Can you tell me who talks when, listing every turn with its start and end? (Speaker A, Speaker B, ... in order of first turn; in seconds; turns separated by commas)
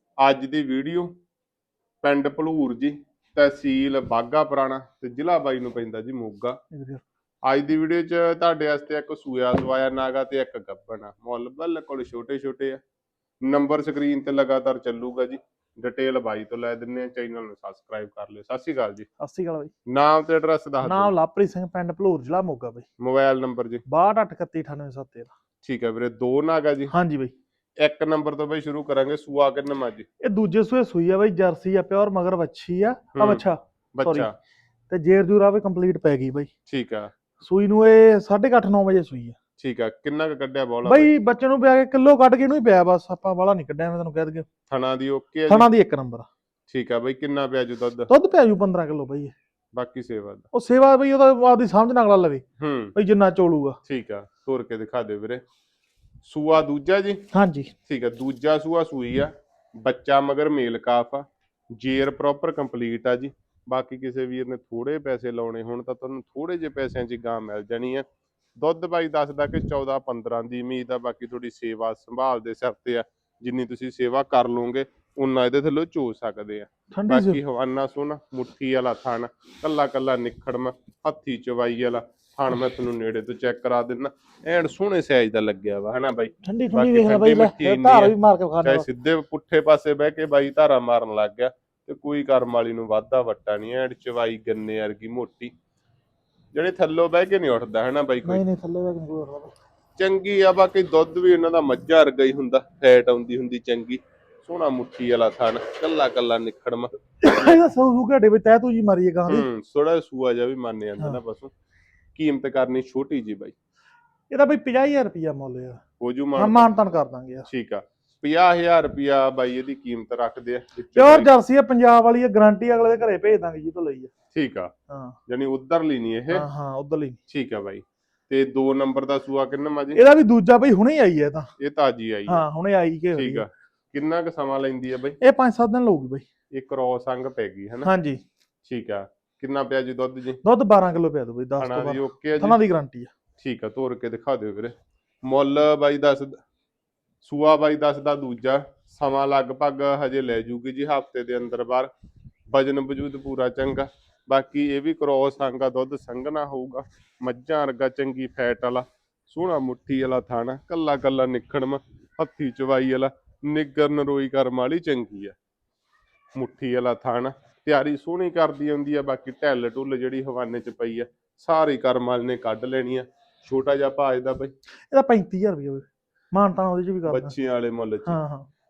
Speaker A: 0.2-1.1, Speaker A: 2.0-6.6, Speaker B: 6.7-7.0, Speaker A: 7.5-12.8, Speaker A: 13.4-19.1, Speaker B: 19.2-19.7, Speaker A: 19.9-21.1, Speaker B: 20.8-22.9, Speaker A: 23.0-23.8, Speaker B: 23.9-25.3, Speaker A: 25.6-26.9, Speaker B: 26.9-27.3, Speaker A: 27.8-30.1, Speaker B: 30.2-34.3, Speaker A: 33.1-33.4, Speaker A: 34.0-34.3, Speaker B: 34.9-36.5, Speaker A: 36.7-37.1, Speaker B: 37.4-39.4, Speaker A: 39.6-41.1, Speaker B: 40.9-44.5, Speaker A: 44.7-45.7, Speaker B: 45.5-46.3, Speaker A: 46.7-48.1, Speaker B: 48.1-49.3, Speaker A: 49.7-50.5, Speaker B: 50.5-52.4, Speaker A: 52.6-53.0, Speaker B: 53.0-53.8, Speaker A: 53.9-55.4, Speaker A: 56.2-57.2, Speaker B: 57.3-57.7, Speaker A: 57.9-68.0, Speaker A: 68.6-95.5, Speaker B: 76.9-77.4, Speaker B: 86.4-88.9, Speaker A: 96.5-98.4, Speaker B: 98.2-99.5, Speaker A: 100.0-107.5, Speaker B: 107.2-109.4, Speaker A: 109.3-111.5, Speaker A: 112.1-113.5, Speaker B: 114.3-115.8, Speaker A: 116.0-116.7, Speaker B: 116.3-117.5, Speaker A: 117.5-121.3, Speaker B: 120.9-124.1, Speaker A: 124.3-124.7, Speaker B: 124.9-125.2, Speaker A: 125.3-126.5, Speaker B: 126.3-127.2, Speaker A: 127.3-130.0, Speaker B: 129.9-131.5, Speaker A: 131.6-132.4, Speaker B: 132.3-133.5, Speaker A: 133.2-135.2, Speaker B: 135.2-136.2, Speaker A: 136.5-137.9, Speaker B: 137.8-138.2, Speaker A: 138.7-140.4, Speaker B: 140.4-143.1, Speaker A: 141.6-142.6, Speaker A: 143.4-146.4, Speaker A: 147.2-151.9, Speaker A: 152.5-165.4, Speaker A: 166.3-174.5, Speaker B: 174.9-177.3, Speaker A: 177.1-178.2, Speaker B: 178.1-178.5